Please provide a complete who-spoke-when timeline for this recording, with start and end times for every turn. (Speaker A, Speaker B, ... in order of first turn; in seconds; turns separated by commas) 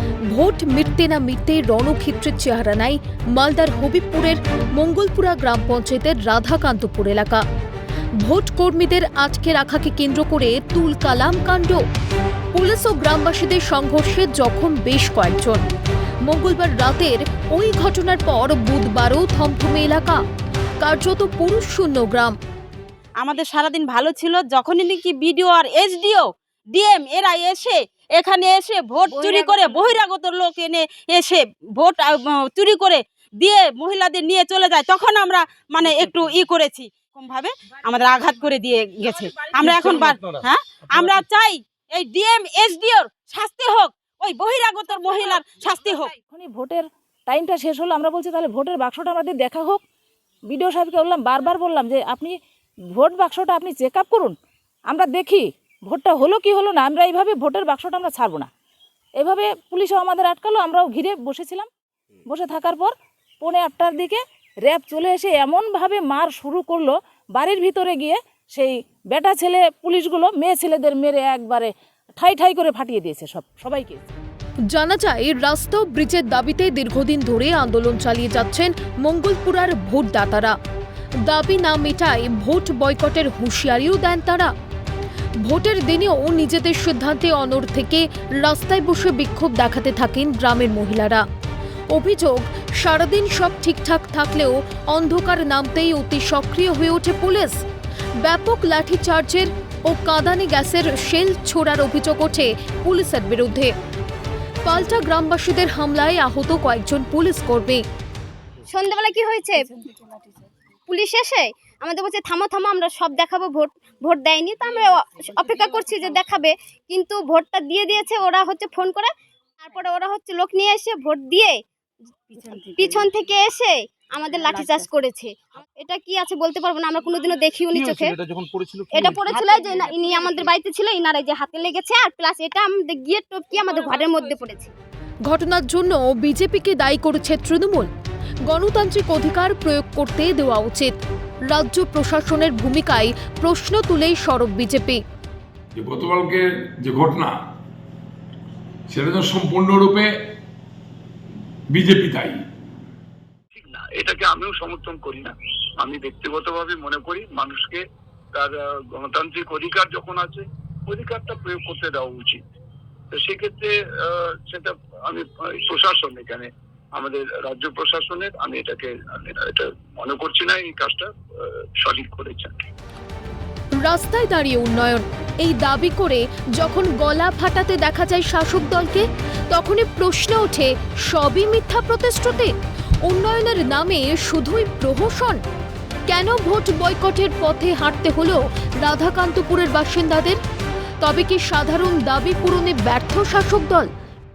Speaker A: 0.3-7.4, Speaker A: 8.2-11.8, Speaker A: 12.5-15.6, Speaker A: 16.2-20.2, Speaker A: 20.8-22.3, Speaker B: 23.2-46.1, Speaker C: 39.6-40.2, Speaker C: 40.9-41.2, Speaker D: 46.3-49.8, Speaker D: 50.5-52.4, Speaker D: 52.9-54.4, Speaker D: 54.9-58.5, Speaker D: 59.2-61.7, Speaker D: 62.2-74.1, Speaker A: 74.7-80.5, Speaker A: 81.3-84.5, Speaker A: 85.4-91.2, Speaker A: 91.9-97.6, Speaker A: 98.2-103.7, Speaker A: 104.6-107.8, Speaker E: 108.7-109.7, Speaker E: 110.9-119.1, Speaker E: 119.6-121.6, Speaker E: 122.3-128.2, Speaker C: 127.7-129.3, Speaker E: 128.9-134.7, Speaker B: 133.5-134.5, Speaker A: 135.3-137.9, Speaker A: 138.5-140.9, Speaker A: 141.5-145.0, Speaker F: 145.8-147.3, Speaker F: 148.9-150.1, Speaker F: 151.7-152.4, Speaker G: 153.5-157.8, Speaker G: 158.3-162.4, Speaker G: 163.1-171.1, Speaker G: 171.8-172.5, Speaker A: 173.8-182.5, Speaker A: 183.0-185.4, Speaker A: 186.1-190.4, Speaker A: 191.0-193.9